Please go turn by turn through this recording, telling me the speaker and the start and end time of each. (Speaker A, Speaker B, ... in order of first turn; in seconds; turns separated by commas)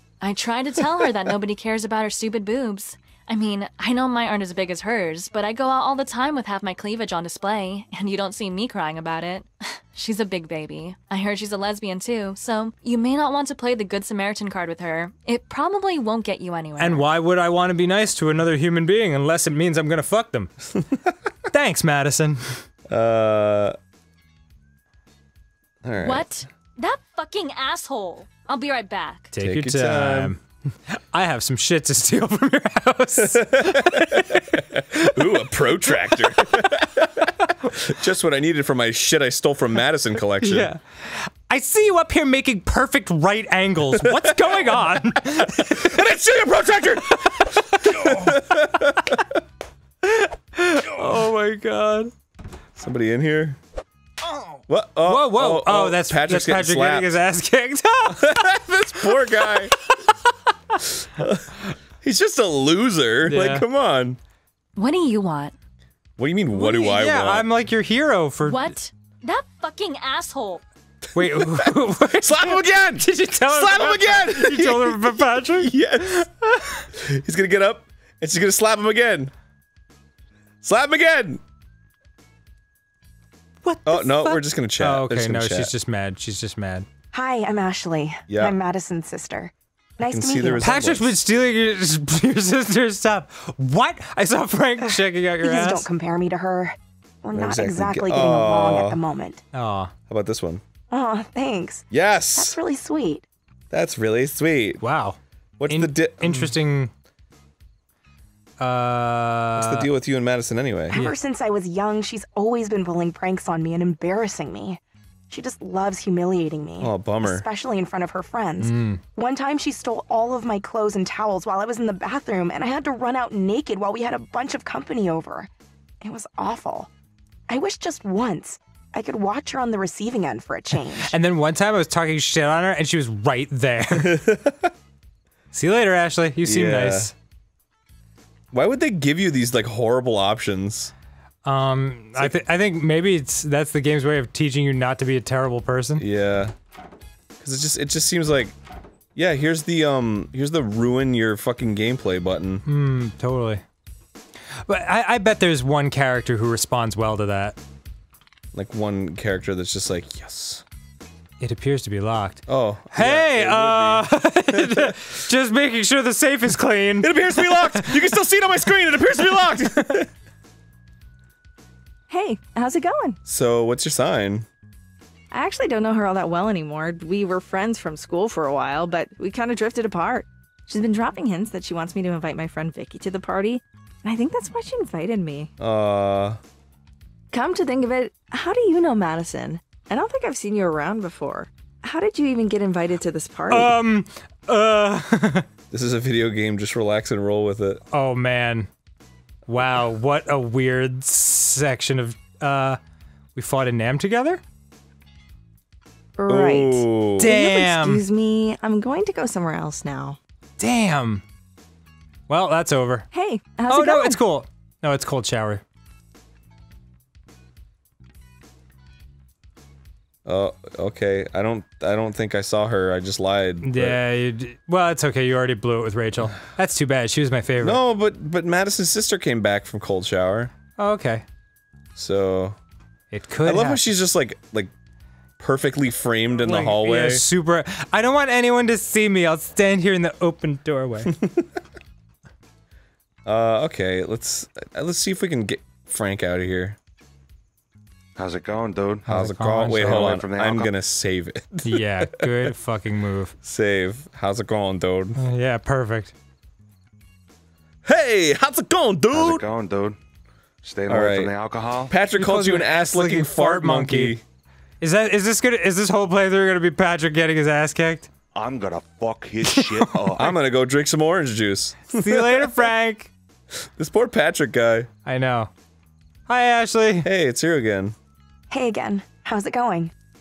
Speaker A: 0.2-17.1, Speaker B: 16.8-20.5, Speaker C: 20.7-21.3, Speaker B: 21.5-22.6, Speaker C: 22.9-23.8, Speaker C: 25.8-26.3, Speaker A: 26.0-29.3, Speaker B: 29.3-36.2, Speaker C: 29.4-30.4, Speaker C: 33.2-40.7, Speaker B: 40.4-46.2, Speaker C: 44.0-49.4, Speaker B: 47.2-48.4, Speaker B: 50.5-51.2, Speaker C: 50.9-52.1, Speaker C: 52.8-53.6, Speaker C: 54.7-57.2, Speaker B: 55.1-58.4, Speaker C: 58.1-59.8, Speaker B: 59.0-60.8, Speaker C: 60.9-64.2, Speaker B: 63.2-63.6, Speaker A: 64.8-65.5, Speaker C: 66.2-67.5, Speaker B: 66.5-68.8, Speaker A: 68.4-70.6, Speaker B: 71.1-75.8, Speaker C: 71.2-79.3, Speaker C: 80.6-81.4, Speaker B: 83.6-86.9, Speaker C: 83.8-85.7, Speaker D: 87.1-90.6, Speaker C: 88.3-88.6, Speaker C: 90.1-91.2, Speaker B: 90.6-95.9, Speaker D: 94.9-99.4, Speaker C: 97.3-99.0, Speaker B: 99.5-99.9, Speaker C: 100.1-100.6, Speaker D: 100.9-103.2, Speaker C: 101.9-102.6, Speaker C: 103.7-104.8, Speaker B: 104.8-105.2, Speaker C: 105.6-106.5, Speaker B: 105.7-106.9, Speaker B: 108.6-109.9, Speaker C: 109.6-111.1, Speaker D: 110.9-125.5, Speaker C: 116.8-117.5, Speaker B: 118.6-119.0, Speaker D: 126.0-126.9, Speaker D: 127.5-131.1, Speaker B: 130.7-134.2, Speaker C: 133.9-134.7, Speaker B: 135.5-137.1, Speaker C: 136.4-137.1, Speaker C: 138.5-140.9, Speaker B: 141.4-146.0, Speaker C: 146.0-146.6, Speaker C: 147.4-148.6, Speaker C: 149.2-152.6, Speaker B: 152.7-153.6, Speaker B: 154.7-157.6, Speaker C: 158.5-160.6, Speaker B: 161.4-168.0, Speaker C: 162.5-165.2, Speaker C: 167.0-170.1, Speaker E: 172.1-173.2, Speaker C: 173.3-174.5, Speaker E: 175.3-185.5, Speaker C: 185.6-186.4, Speaker E: 187.3-193.8, Speaker B: 193.5-195.5, Speaker C: 195.7-197.8, Speaker B: 197.9-198.7, Speaker B: 199.5-202.8, Speaker B: 203.3-204.4, Speaker E: 206.2-210.2, Speaker C: 206.3-207.3, Speaker B: 207.2-208.0, Speaker B: 210.6-211.2, Speaker B: 212.3-213.1, Speaker E: 213.1-214.2, Speaker B: 213.7-215.6, Speaker C: 220.2-224.0, Speaker B: 223.6-227.8, Speaker C: 227.6-230.5, Speaker B: 230.8-231.2, Speaker C: 232.0-232.6, Speaker B: 233.1-233.8, Speaker C: 233.4-234.7, Speaker C: 235.4-237.2, Speaker B: 236.4-241.1, Speaker C: 241.1-241.5, Speaker C: 243.2-246.8, Speaker F: 248.2-249.1, Speaker B: 249.1-250.2, Speaker C: 249.1-252.5, Speaker F: 249.7-250.7, Speaker B: 251.7-253.3, Speaker C: 253.4-255.2, Speaker B: 255.2-256.1, Speaker C: 257.9-259.4, Speaker F: 259.1-260.0, Speaker F: 260.6-261.9, Speaker C: 260.9-264.2, Speaker B: 262.1-264.2, Speaker B: 264.8-268.1, Speaker F: 268.3-270.3, Speaker B: 269.5-270.3, Speaker C: 270.2-272.7, Speaker B: 271.9-273.1, Speaker C: 273.6-274.9, Speaker B: 275.1-275.5, Speaker B: 276.3-277.1, Speaker C: 277.0-277.9, Speaker D: 278.5-279.9